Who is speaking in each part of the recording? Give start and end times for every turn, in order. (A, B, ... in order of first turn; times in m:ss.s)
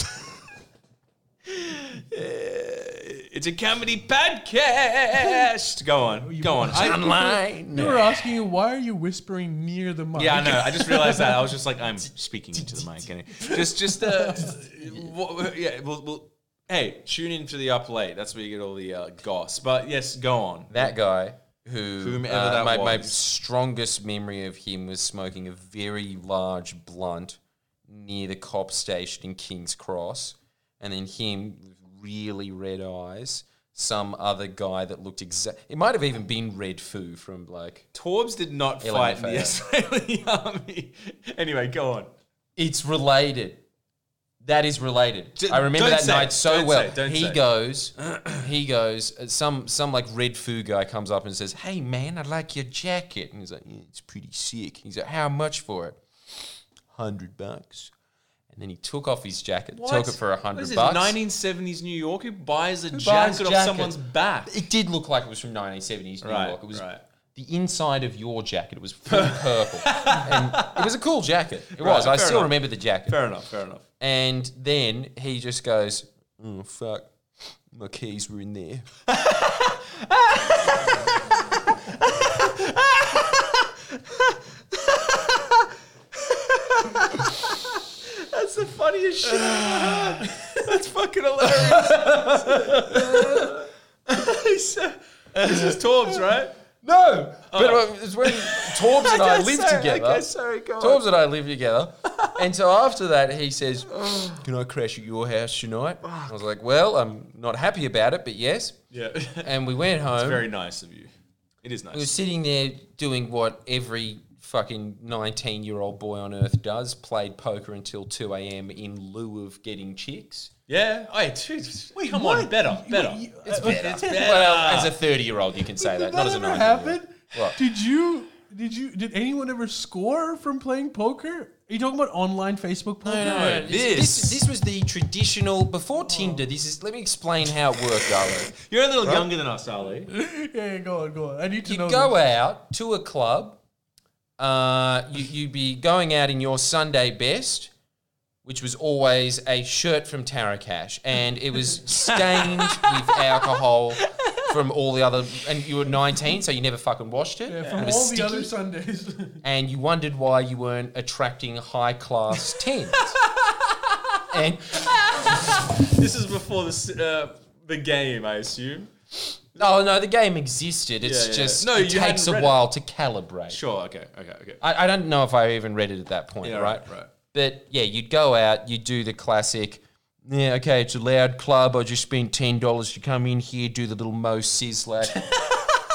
0:01.5-0:07.1 A
0:05.2-0:05.4 B
0:06.2-0:11.4 B
0:06.6-0:08.3 C
0:10.2-0:20.9 A
0:12.6-0:13.7 C
0:14.0-0:14.6 B
0:20.7-0:37.9 C
0:22.0-0:23.2 A
0:37.9-0:42.1 A
0:38.8-0:39.6 C
0:42.6-0:43.6 C
0:44.4-0:57.9 C
0:45.4-0:47.4 A
0:48.0-0:48.5 A
0:58.5-1:01.2 C
0:59.8-1:04.6 A
1:02.9-1:13.2 C
1:06.2-1:07.0 A
1:09.1-1:10.9 A
1:11.8-1:13.8 A
1:14.0-1:18.9 C
1:19.1-1:36.5 A
1:29.3-1:30.4 C
1:31.4-1:33.7 C
1:35.4-1:36.3 C
1:36.8-1:40.3 C
1:37.5-1:41.0 A
1:40.8-1:48.8 C
1:42.1-1:42.4 A
1:43.9-1:44.5 A
1:46.0-1:46.4 A
1:48.9-1:49.6 A
1:49.4-1:50.5 C
1:50.1-1:51.1 A
1:51.6-1:52.1 A
1:51.9-2:00.5 C
2:00.7-2:05.0 A
2:02.0-2:04.3 B
2:03.5-2:07.6 C
2:05.8-2:13.7 B
2:13.0-2:19.3 C
2:13.2-2:14.4 A
2:16.1-2:16.4 B
2:18.5-2:20.1 A
2:20.1-2:22.2 B
2:21.6-2:23.6 C
2:24.4-2:27.7 C
2:28.4-2:38.5 C
2:31.9-2:34.5 A
2:37.5-2:39.4 B
2:39.4-2:43.2 C
2:43.0-2:48.9 A
2:44.3-2:45.6 C
2:49.6-2:53.6 C
2:51.0-2:52.6 A
2:53.5-2:54.6 A
2:54.6-3:05.3 C
2:56.4-2:57.1 A